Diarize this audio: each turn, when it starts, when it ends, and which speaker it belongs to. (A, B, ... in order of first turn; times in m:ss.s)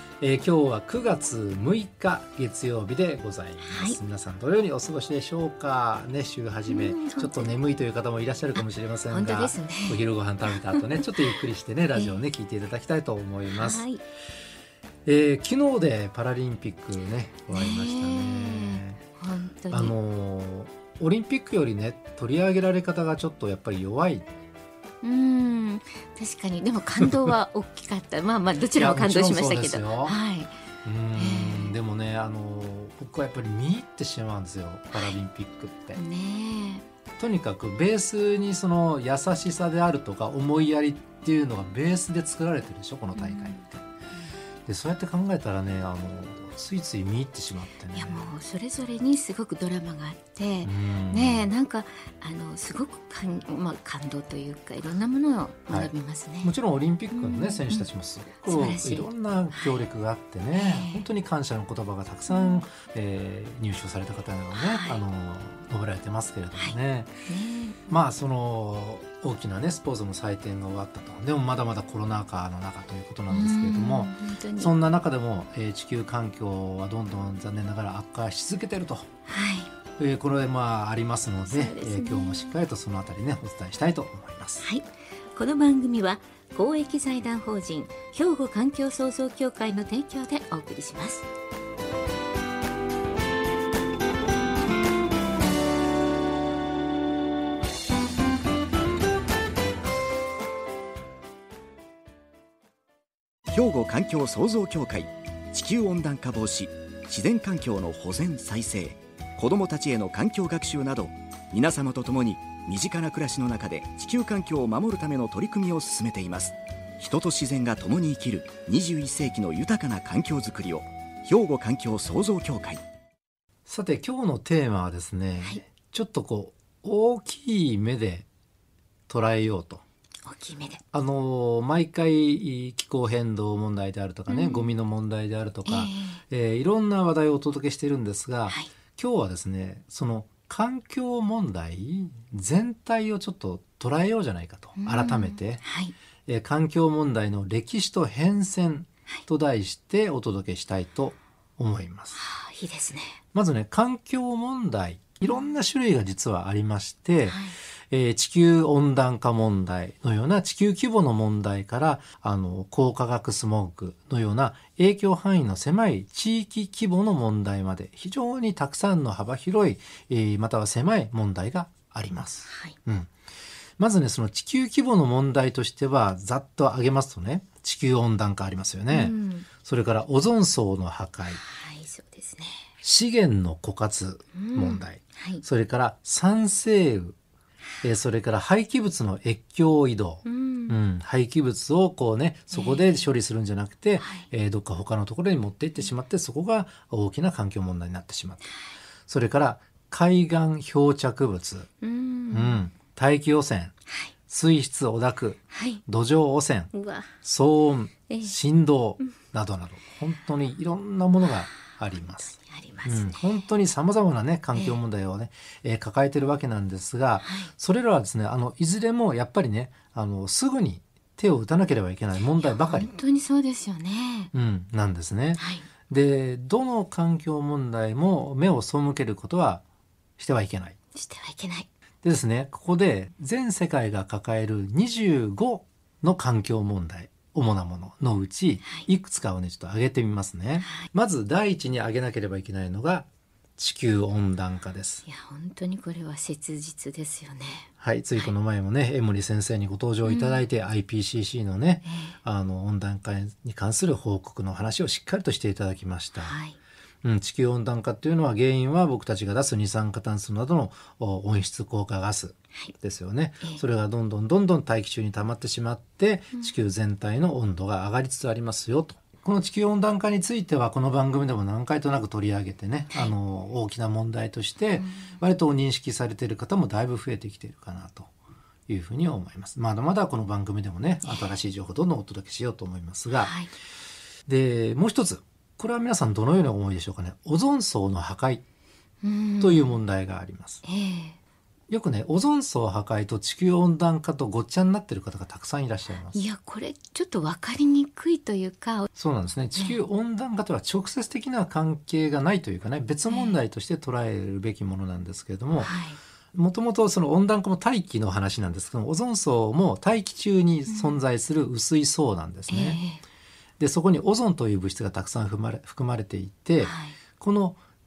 0:00.2-0:13.9 A
0:03.7-0:04.0 B
0:06.7-0:07.6 B
0:08.6-0:11.4 B
0:13.5-0:14.0 B
0:15.1-0:19.0 A
0:17.5-0:20.0 B
0:19.7-0:24.3 A
0:25.0-0:30.6 B
0:28.8-0:30.2 A
0:30.8-0:36.0 A
0:31.2-0:31.8 B
0:36.0-0:36.9 B
0:37.2-0:43.8 A
0:43.2-0:43.6 B
0:44.7-0:48.2 A
0:47.9-0:56.5 B
0:50.6-0:51.5 A
0:55.7-1:07.2 A
0:57.1-0:57.9 B
0:58.4-0:59.8 B
1:00.5-1:01.0 B
1:02.3-1:02.6 B
1:04.5-1:05.0 B
1:07.3-1:07.9 B
1:07.9-1:19.1 A
1:13.3-1:14.7 B
1:19.3-1:19.7 B
1:20.0-1:24.7 A
1:21.5-1:22.6 B
1:24.6-1:31.3 B
1:43.5-2:02.8 C
2:03.7-2:08.3 A
2:09.1-2:09.8 A
2:10.2-2:10.8 B
2:10.9-2:25.6 A
2:14.3-2:14.7 B
2:15.7-2:16.2 B
2:24.8-2:26.0 B
2:26.3-2:32.2 A
2:32.1-2:33.2 B
2:33.3-2:53.1 A
2:35.2-2:35.5 B
2:37.3-2:37.6 B
2:52.5-2:52.8 B
2:53.8-3:01.4 A
2:58.9-2:59.5 B
3:01.3-3:02.7 B
3:02.8-3:07.2 A
3:04.4-3:05.4 B
3:07.8-3:18.6 A
3:10.2-3:10.8 B
3:12.5-3:13.1 B
3:19.1-3:21.7 A
3:21.8-3:22.6 B
3:22.3-3:23.7 A
3:24.3-3:42.9 A
3:25.5-3:25.8 B
3:26.7-3:27.2 B
3:28.1-3:28.3 B
3:32.4-3:33.4 B
3:34.5-3:34.8 B
3:37.2-3:37.5 B
3:42.3-3:44.3 B
3:44.3-3:49.6 A
3:45.4-3:45.7 B
3:50.2-3:50.8 A
3:50.9-3:51.7 B
3:52.0-4:05.0 A
4:05.0-4:08.3 B
4:07.8-4:16.4 A
4:10.0-4:10.4 B
4:11.9-4:12.2 B
4:16.2-4:16.6 B
4:17.0-4:38.1 A
4:34.8-4:35.2 B
4:38.7-4:43.3 A
4:41.0-4:41.3 B
4:43.1-4:43.5 B
4:44.3-4:48.4 A
4:49.0-4:49.8 B
4:49.4-4:50.6 A
4:50.6-4:51.2 B
4:51.7-4:56.2 A
4:56.1-4:58.9 B
4:58.9-5:05.7 A
4:59.6-4:59.8 B
5:03.1-5:03.4 B
5:05.6-5:06.0 B
5:06.3-5:12.8 A
5:10.7-5:11.0 B
5:12.5-5:13.0 B
5:13.6-5:17.6 A
5:16.6-5:17.0 B